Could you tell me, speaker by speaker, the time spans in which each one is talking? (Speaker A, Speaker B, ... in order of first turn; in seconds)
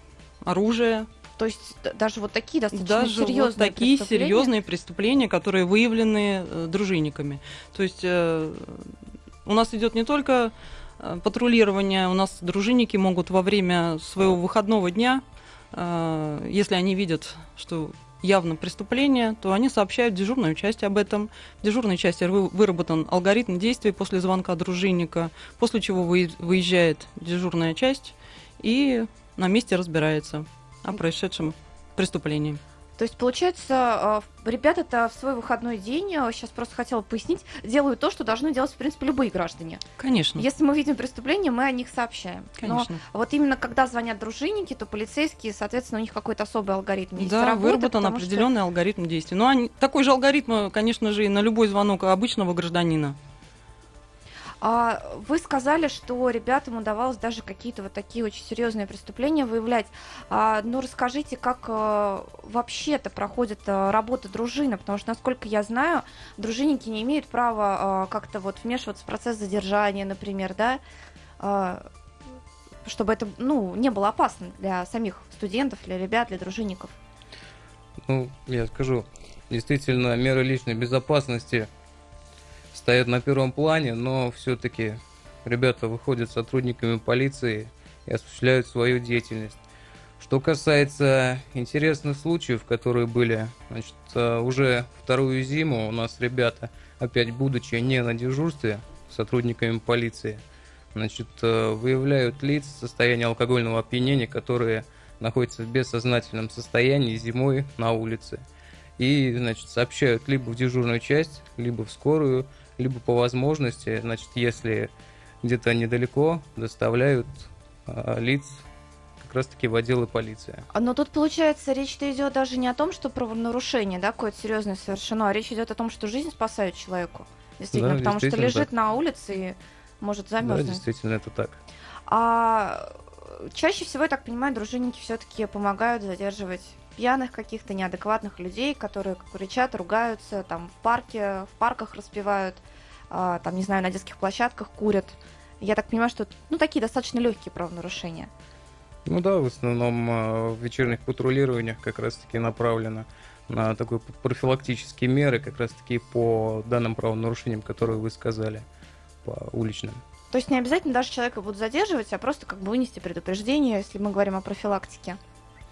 Speaker A: 0.4-1.1, 2.7-8.9, 9.4-32.6, 40.0-40.4, 42.6-43.0, 47.2-53.1
Speaker B: 1.4-4.5, 33.0-39.8, 40.4-48.5, 54.6-70.8, 71.4-71.9, 72.8-77.0, 120.7-130.8, 132.1-148.3, 160.3-165.2
Speaker C: 78.0-81.7, 82.7-89.6, 90.2-100.4, 100.9-108.4, 109.0-114.9, 115.4-118.6, 119.2-120.7, 127.7-128.7, 130.4-131.6, 149.1-158.6, 159.2-160.0